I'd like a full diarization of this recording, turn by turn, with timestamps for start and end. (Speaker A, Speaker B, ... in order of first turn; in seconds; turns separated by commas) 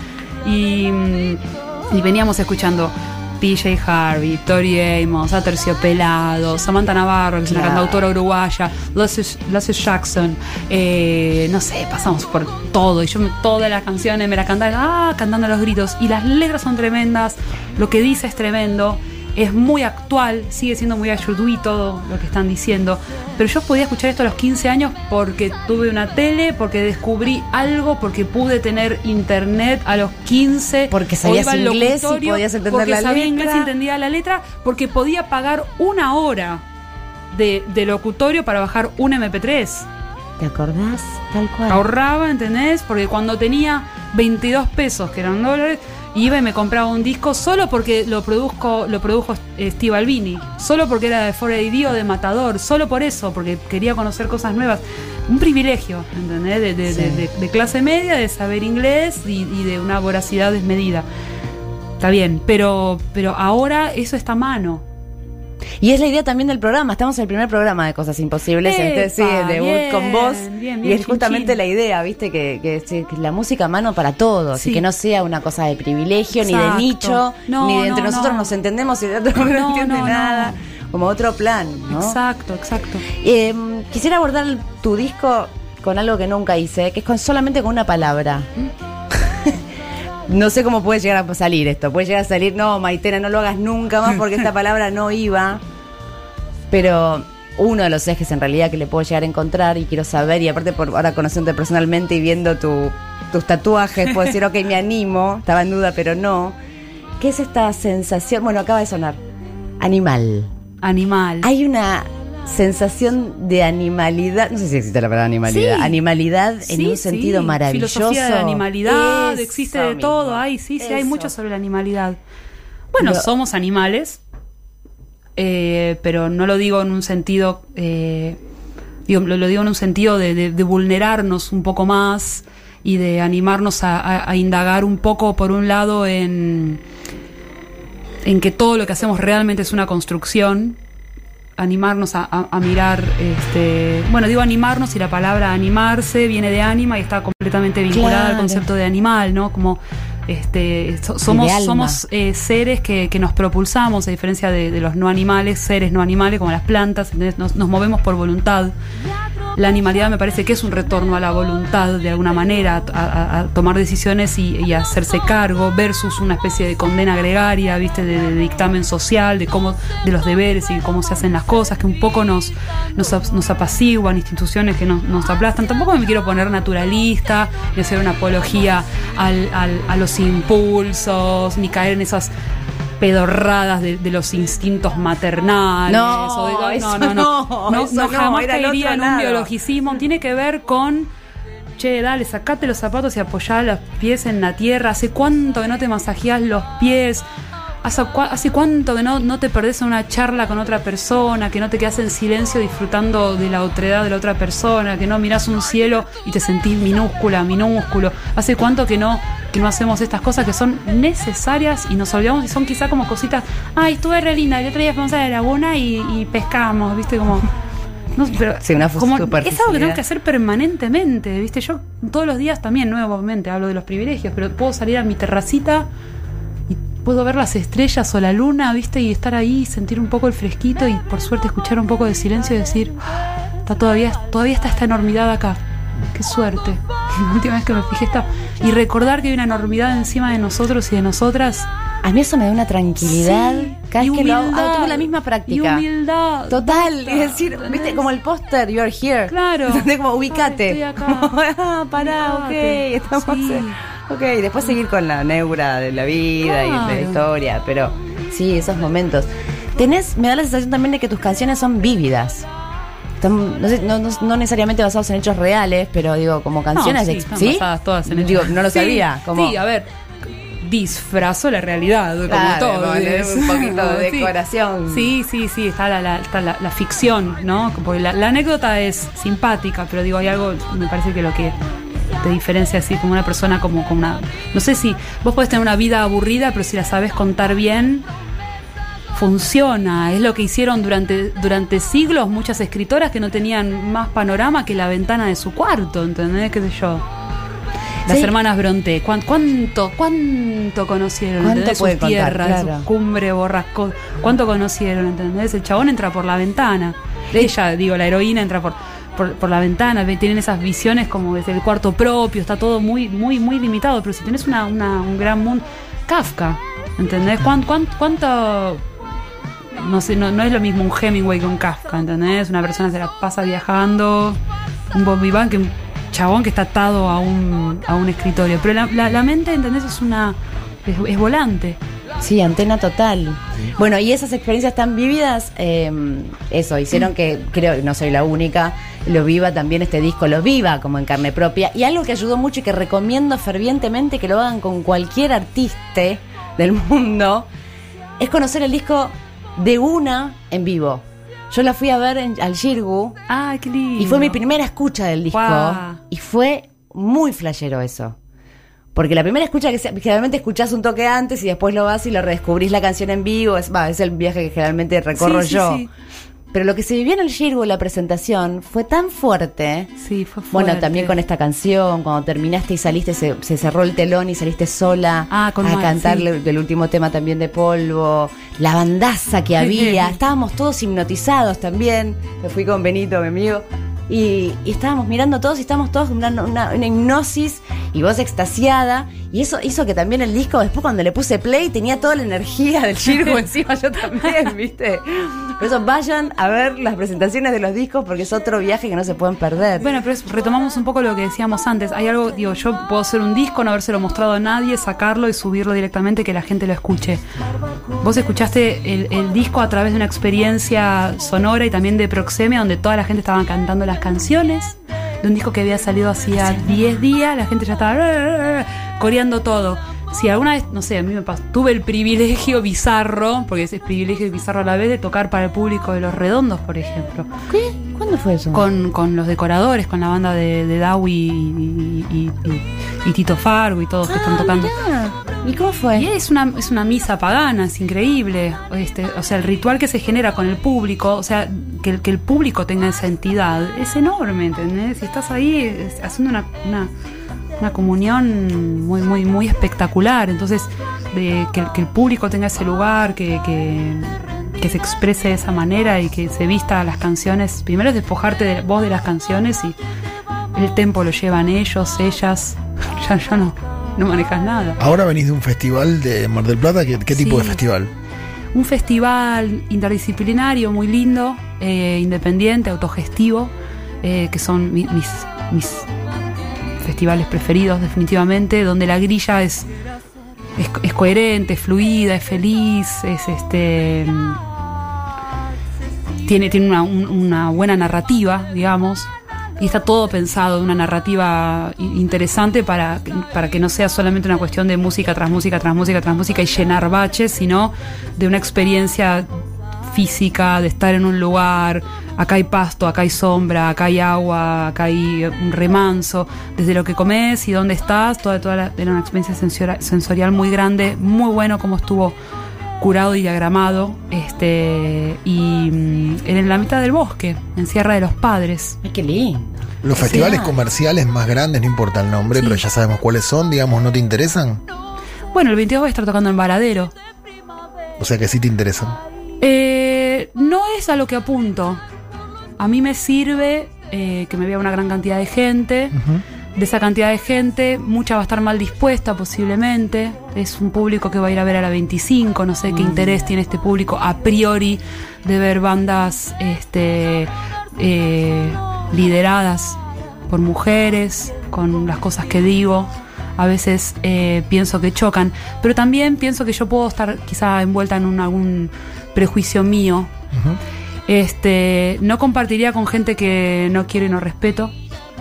Speaker A: 0.4-36.6, Speaker B: 7.5-8.0, Speaker B: 30.9-33.7, Speaker A: 37.3-39.9, Speaker B: 40.4-41.8, Speaker A: 41.7-61.0, Speaker B: 56.9-57.2, Speaker A: 62.0-64.8, Speaker B: 65.8-82.2, Speaker A: 68.6-71.6, Speaker A: 74.5-74.8, Speaker A: 76.3-78.5, Speaker A: 79.4-80.5, Speaker A: 81.9-83.0, Speaker B: 83.1-88.5, Speaker B: 89.1-89.6, Speaker B: 90.3-95.6, Speaker B: 96.7-106.5, Speaker B: 107.2-109.2, Speaker B: 109.8-110.5, Speaker A: 110.8-111.5, Speaker B: 111.4-121.3, Speaker A: 115.4-116.0, Speaker A: 116.6-122.2, Speaker A: 122.9-124.2, Speaker B: 123.0-123.3, Speaker A: 125.4-128.4, Speaker A: 129.1-136.8, Speaker A: 138.2-140.8, Speaker A: 141.6-158.7, Speaker B: 147.9-148.6, Speaker B: 151.2-152.0, Speaker A: 159.6-182.3, Speaker A: 183.0-191.1, Speaker B: 185.9-189.5, Speaker A: 191.8-197.2, Speaker A: 197.8-217.5, Speaker A: 218.2-225.9, Speaker B: 218.6-220.0, Speaker A: 226.7-232.9, Speaker A: 233.7-235.6, Speaker A: 236.1-241.7, Speaker B: 242.0-245.8, Speaker A: 243.0-248.1, Speaker B: 246.5-262.5, Speaker A: 249.3-251.3, Speaker A: 252.0-253.8, Speaker A: 256.4-257.2, Speaker B: 263.2-269.6, Speaker A: 266.7-269.9, Speaker A: 270.6-274.3, Speaker B: 272.2-275.1, Speaker A: 274.9-281.6, Speaker A: 282.2-288.0, Speaker A: 289.1-297.0, Speaker A: 298.1-318.8, Speaker B: 298.1-298.3, Speaker B: 301.4-302.9, Speaker A: 319.7-324.4, Speaker A: 324.9-331.8, Speaker B: 332.2-347.5, Speaker B: 348.2-353.2, Speaker A: 353.3-354.4, Speaker B: 354.0-358.2, Speaker A: 355.3-356.0, Speaker B: 358.9-365.8, Speaker A: 365.2-365.9, Speaker B: 366.5-369.9, Speaker A: 370.0-371.1, Speaker B: 370.5-399.9, Speaker A: 375.3-376.2, Speaker A: 379.6-380.1, Speaker A: 399.8-407.2, Speaker A: 408.0-427.3, Speaker B: 427.5-428.6, Speaker A: 428.5-434.7, Speaker B: 434.1-436.1, Speaker A: 435.9-446.9, Speaker A: 447.6-459.8, Speaker A: 460.5-464.8, Speaker C: 464.8-467.9, Speaker A: 467.1-467.6, Speaker A: 468.5-475.9, Speaker A: 476.8-479.7, Speaker A: 480.6-484.4, Speaker A: 486.2-499.3, Speaker A: 499.9-512.1, Speaker A: 512.8-518.8, Speaker B: 518.8-520.6, Speaker C: 519.8-524.6, Speaker A: 522.3-522.6, Speaker A: 525.3-526.9, Speaker C: 528.0-529.0, Speaker A: 529.4-531.8, Speaker A: 532.6-535.9, Speaker C: 535.9-536.2, Speaker A: 536.5-560.1, Speaker B: 542.7-543.3, Speaker C: 560.3-560.6, Speaker A: 561.1-564.7